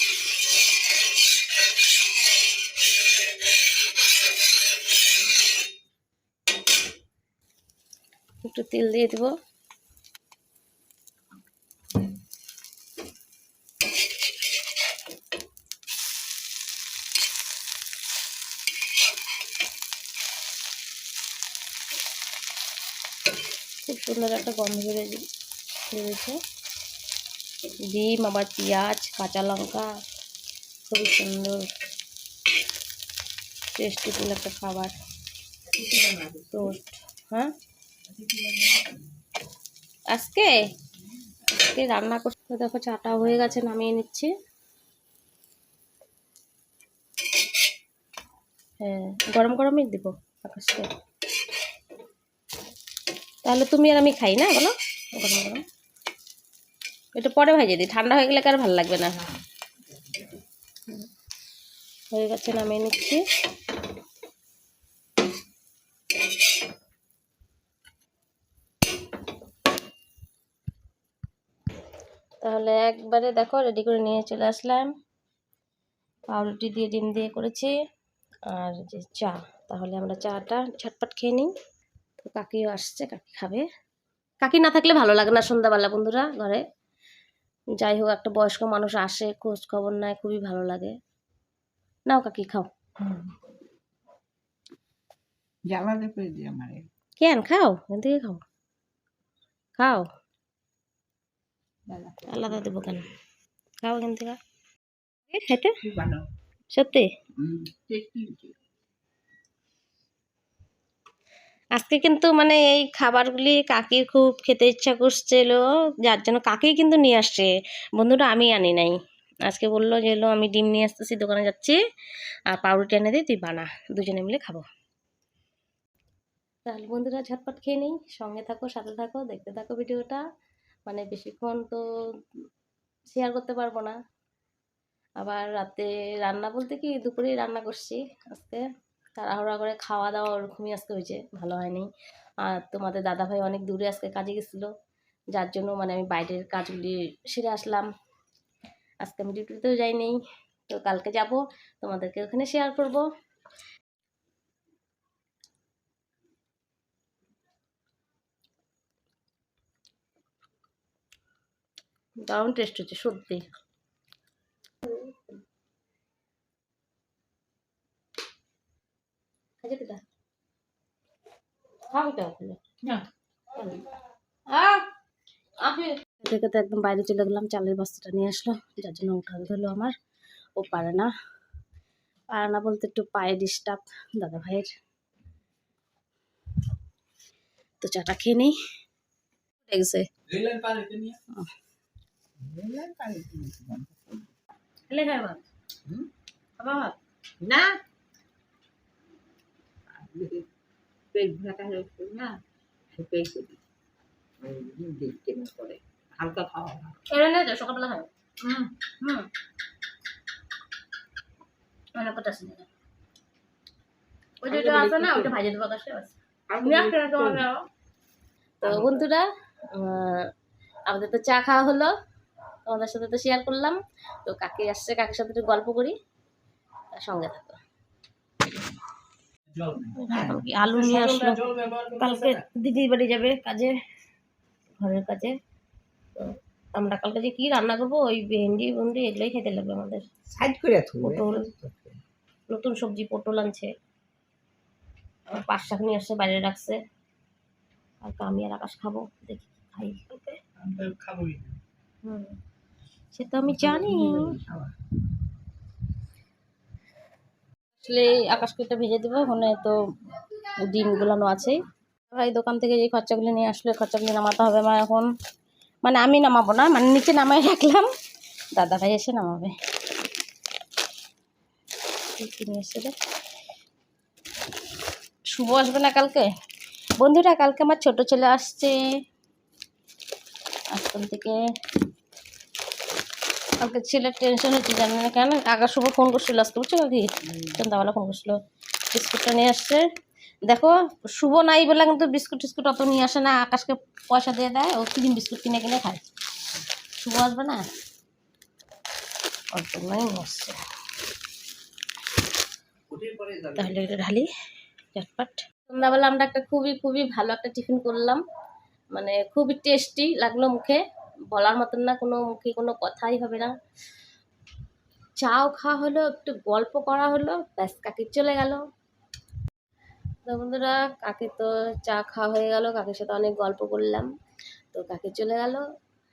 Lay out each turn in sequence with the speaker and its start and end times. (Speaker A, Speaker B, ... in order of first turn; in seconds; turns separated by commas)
Speaker A: 8.4-9.3, Speaker A: 23.9-25.2, Speaker A: 25.9-26.4, Speaker A: 27.9-29.9, Speaker A: 30.9-31.7, Speaker A: 33.8-35.0, Speaker B: 35.7-36.7, Speaker A: 36.5-37.5, Speaker B: 38.1-39.0, Speaker A: 40.1-40.6, Speaker A: 41.5-44.3, Speaker A: 48.8-50.9, Speaker A: 53.5-55.6, Speaker A: 57.1-59.3, Speaker A: 62.1-63.2, Speaker A: 72.4-74.9, Speaker A: 76.3-77.7, Speaker A: 78.5-81.5, Speaker A: 82.2-83.7, Speaker A: 84.4-86.6, Speaker A: 87.8-91.0, Speaker A: 92.1-92.7, Speaker B: 95.7-96.9, Speaker A: 97.2-98.4, Speaker A: 99.8-100.1, Speaker B: 101.9-102.7, Speaker A: 102.3-103.1, Speaker A: 103.8-104.4, Speaker A: 105.3-105.8, Speaker B: 105.8-106.3, Speaker A: 106.7-107.1, Speaker B: 107.4-108.6, Speaker A: 111.8-121.8, Speaker A: 122.5-124.7, Speaker A: 126.7-130.2, Speaker A: 130.9-131.8, Speaker A: 133.1-134.0, Speaker A: 135.2-138.7, Speaker A: 139.2-141.9, Speaker A: 142.4-144.7, Speaker A: 145.3-147.9, Speaker A: 149.0-153.1, Speaker A: 162.3-163.4, Speaker A: 164.8-165.4, Speaker A: 169.6-170.0, Speaker A: 171.9-173.9, Speaker A: 174.5-174.9, Speaker A: 175.6-179.9, Speaker A: 180.6-181.1, Speaker A: 182.3-184.7, Speaker A: 187.8-188.5, Speaker A: 189.7-190.1, Speaker B: 192.4-194.3, Speaker A: 194.9-195.4, Speaker A: 196.6-196.9, Speaker B: 197.4-197.8, Speaker B: 199.9-200.5, Speaker B: 201.1-202.4, Speaker B: 202.9-203.6, Speaker B: 204.4-207.0, Speaker A: 207.1-209.3, Speaker A: 211.9-212.7, Speaker A: 214.4-217.7, Speaker B: 214.4-215.4, Speaker B: 216.5-217.5, Speaker A: 218.6-220.3, Speaker B: 218.6-219.0, Speaker A: 220.9-221.9, Speaker A: 222.7-226.0, Speaker A: 226.9-227.6, Speaker A: 229.9-233.8, Speaker B: 230.0-230.4, Speaker A: 234.8-235.3, Speaker A: 236.2-240.1, Speaker B: 240.3-242.0, Speaker A: 241.0-241.5, Speaker A: 242.5-243.7, Speaker A: 245.3-246.8, Speaker A: 248.0-250.4, Speaker B: 250.7-251.4, Speaker A: 252.0-252.4, Speaker A: 253.1-254.4, Speaker B: 253.5-254.7, Speaker A: 257.8-259.8, Speaker A: 260.7-261.6, Speaker A: 262.1-265.1, Speaker A: 265.8-267.9, Speaker A: 268.5-269.5, Speaker A: 272.2-272.9, Speaker A: 275.3-276.3, Speaker A: 277.0-278.8, Speaker A: 280.7-281.4, Speaker A: 283.6-288.4, Speaker A: 288.9-289.9, Speaker A: 290.4-296.0, Speaker A: 297.0-297.7, Speaker A: 299.5-300.6, Speaker B: 302.9-303.8, Speaker A: 303.6-304.3, Speaker A: 304.9-308.2, Speaker A: 308.9-313.5, Speaker A: 315.2-318.6, Speaker A: 320.3-324.1, Speaker A: 324.7-325.6